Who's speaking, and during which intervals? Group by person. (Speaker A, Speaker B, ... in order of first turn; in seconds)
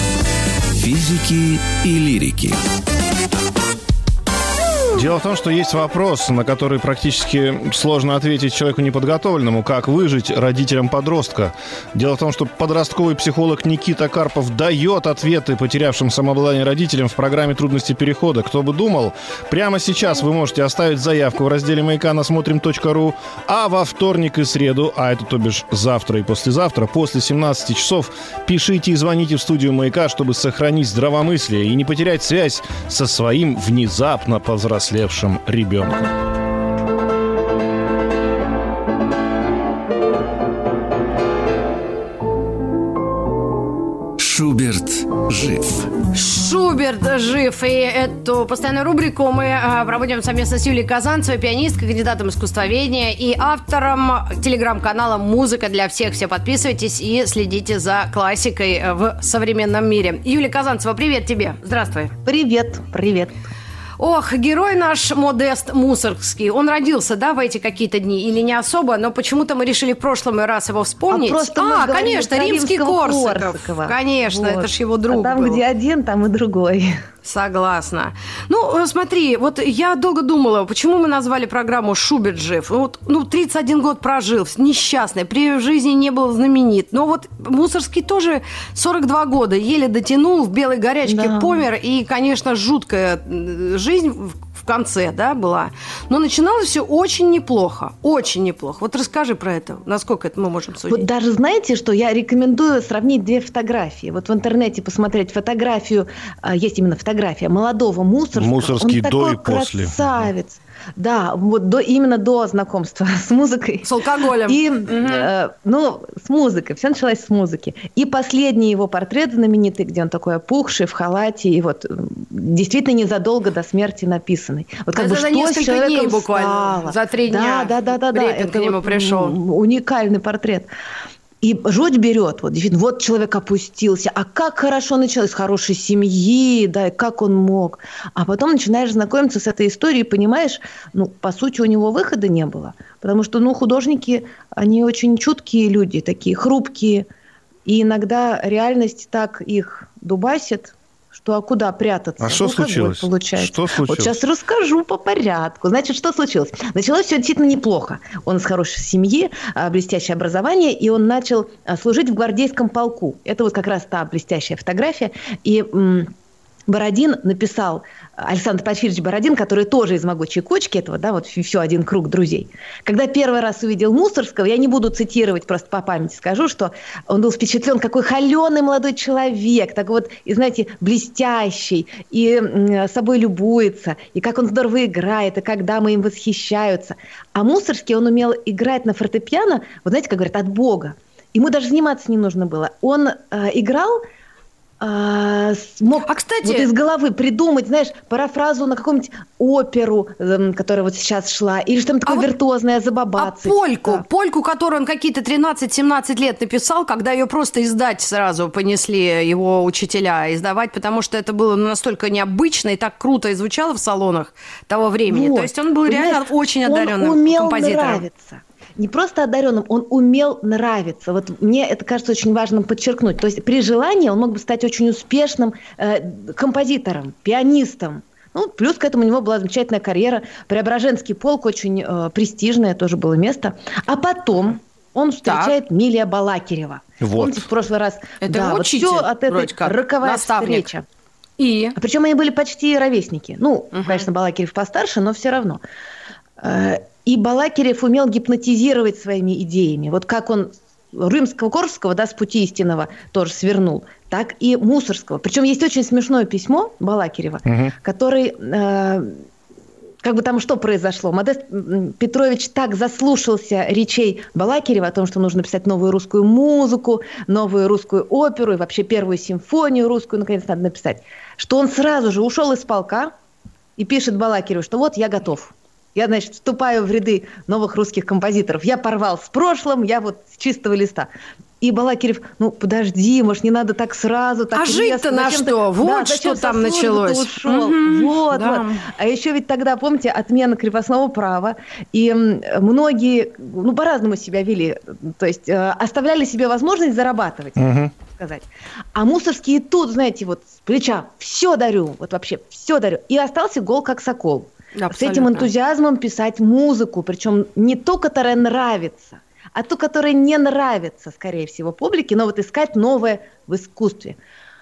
Speaker A: 0.8-2.6, 44.2-45.9
Speaker B: 4.9-36.1, 108.3-110.1, 152.2-154.2, 237.0-237.5, 257.4-257.7, 297.6-297.9
Speaker C: 46.1-62.1, 64.0-75.6, 77.2-101.0, 113.8-115.3, 124.9-129.4, 196.0-196.7, 203.2-218.0, 235.2-235.6, 238.2-240.7, 241.4-241.8, 243.7-244.1, 284.5-288.8, 304.8-305.5
Speaker D: 62.2-63.3, 71.1-77.0, 91.0-91.6, 100.9-130.7, 131.4-147.1, 147.7-166.1, 166.7-194.0, 194.8-204.0, 215.1-240.8, 241.8-245.6, 246.4-259.2, 260.0-273.1, 273.8-281.1, 281.6-314.2